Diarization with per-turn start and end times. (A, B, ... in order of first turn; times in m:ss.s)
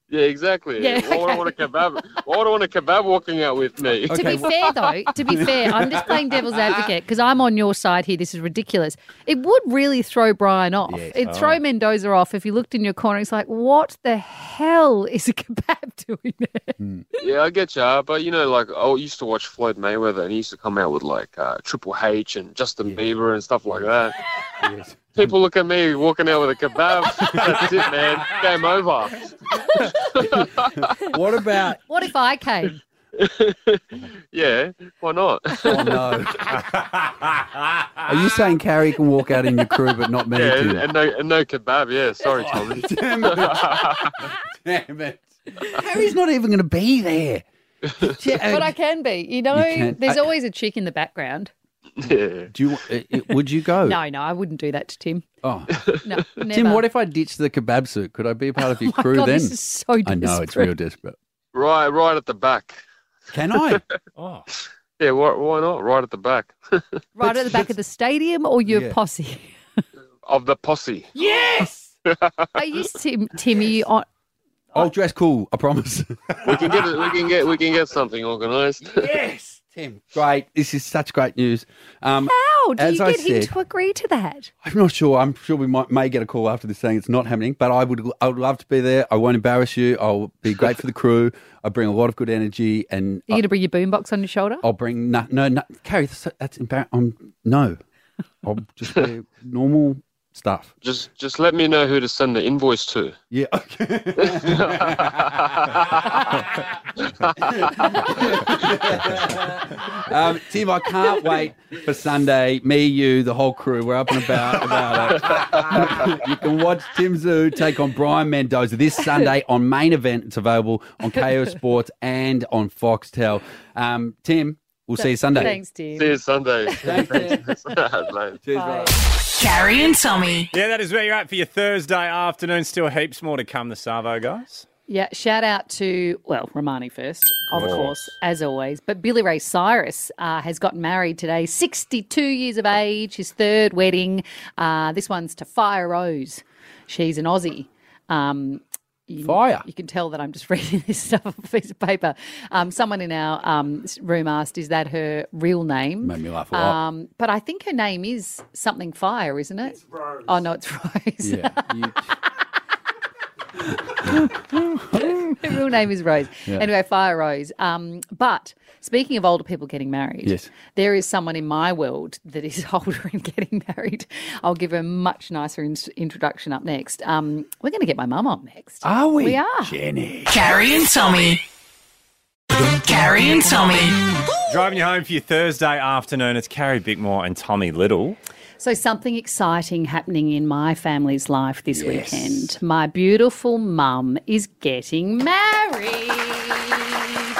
0:00.1-0:04.6 A
0:00.8-0:01.7 B
0:04.1-0:04.5 C
0:04.1-0:16.8 B
0:05.1-0:06.2 C
0:10.9-0:11.5 C
0:16.8-0:17.0 C
0:17.2-0:24.2 A
0:24.6-0:25.3 C
0:25.2-0:30.9 A
0:27.1-0:27.9 C
0:30.2-0:31.8 C
0:31.9-0:32.8 B
0:33.2-0:36.0 A
0:35.6-0:37.3 C
0:38.0-0:40.9 C
0:40.3-0:44.2 A
0:42.2-0:47.4 C
0:48.0-0:48.7 C
0:48.5-0:51.5 B
0:49.5-0:50.3 C
0:52.0-0:52.5 A
0:52.5-0:54.0 C
0:53.9-0:55.2 B
0:55.4-0:55.8 C
0:56.0-0:56.8 B
0:56.4-1:01.2 C
0:58.6-1:00.7 B
1:01.5-1:02.8 A
1:03.3-1:03.8 C
1:04.2-1:04.4 D
1:05.0-1:06.8 A
1:07.2-1:09.8 B
1:08.7-1:09.0 C
1:10.2-1:11.1 A
1:11.2-1:11.9 C
1:12.1-1:12.4 A
1:12.6-1:14.1 B
1:14.7-1:17.0 C
1:16.4-1:19.1 A
1:18.8-1:23.5 C
1:22.2-1:24.5 B
1:24.6-1:33.4 C
1:33.3-1:34.6 B
1:34.6-1:37.8 C
1:38.4-1:40.7 C
1:40.8-1:43.2 A
1:43.3-1:46.6 C
1:44.2-1:46.2 A
1:47.1-1:48.2 A
1:47.4-2:05.6 C
2:05.0-2:06.2 B
2:05.9-2:08.4 A
2:06.8-2:07.5 C
2:06.9-2:07.4 B
2:08.4-2:09.0 C
2:08.5-2:08.9 B
2:09.4-2:10.5 E
2:10.5-2:14.6 D
2:14.9-2:41.7 B
2:17.6-2:17.9 D
2:17.6-2:17.8 C
2:29.2-2:29.6 C
2:36.0-2:36.8 C
2:41.2-2:42.1 C
2:43.8-2:45.4 C
2:44.9-2:59.8 B
2:50.2-2:50.5 C
2:58.8-3:00.3 C
3:00.3-3:01.4 E
3:02.5-3:04.2 E
3:04.5-3:08.2 D
3:08.6-3:17.0 B
3:11.7-3:12.6 C